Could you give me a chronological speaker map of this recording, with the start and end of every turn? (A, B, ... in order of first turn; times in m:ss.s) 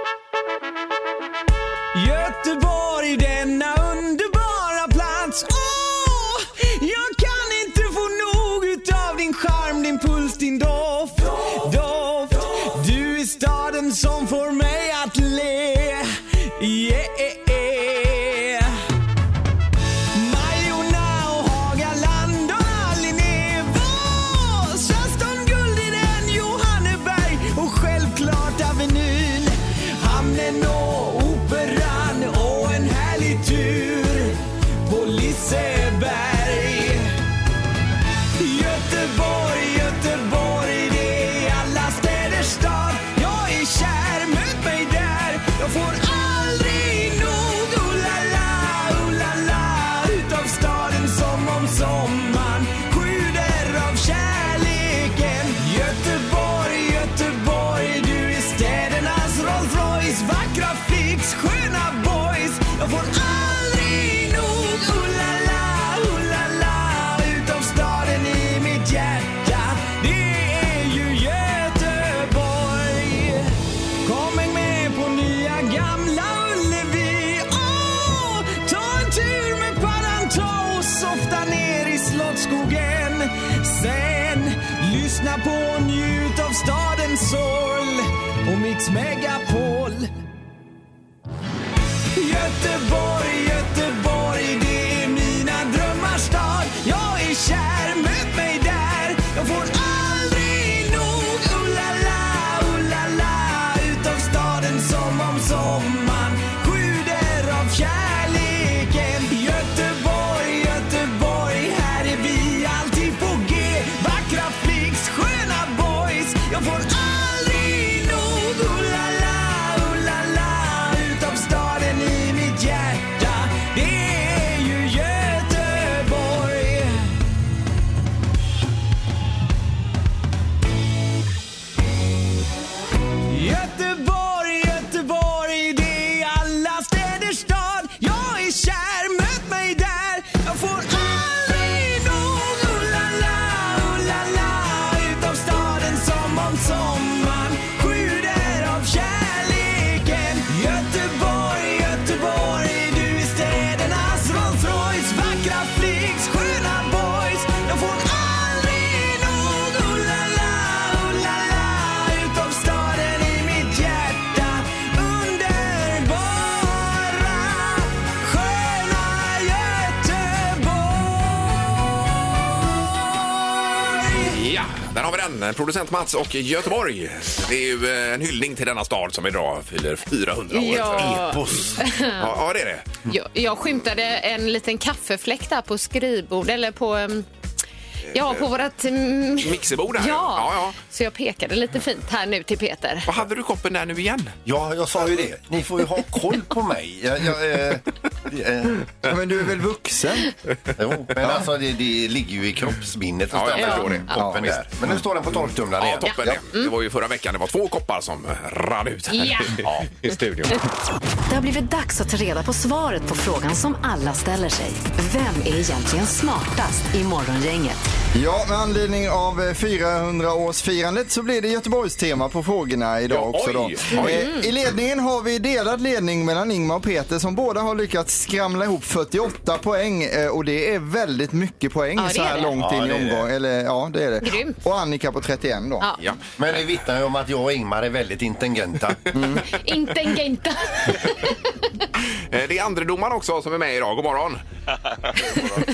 0:01.9-0:18.8 A
0:20.1-0:37.1 A
0:38.4-1:30.1 A
1:32.2-2:07.1 A
2:13.3-2:51.9 A
2:52.7-2:54.4 A
2:54.3-3:01.3 B
3:00.5-3:02.3 C
3:00.6-3:01.8 D
3:02.2-3:02.9 B
3:03.1-3:07.3 C
3:08.1-3:13.1 C
3:09.4-3:10.8 B
3:13.1-3:14.4 B
3:14.5-3:18.9 D
3:19.0-3:20.3 E
3:20.8-3:26.4 D
3:23.3-3:24.6 B
3:23.6-3:23.9 C
3:24.1-3:24.5 E
3:25.8-3:30.6 B
3:26.0-3:26.7 C
3:29.1-3:29.6 C
3:29.6-3:29.9 D
3:31.3-3:37.8 F
3:38.1-3:55.9 E
3:43.1-3:44.2 B
3:43.9-3:44.5 C
3:52.0-3:52.5 C
3:52.6-3:53.3 D
3:54.2-3:54.6 C
3:56.4-3:59.0 D
3:59.1-3:59.4 E
3:59.5-4:01.5 C
4:02.3-4:04.4 B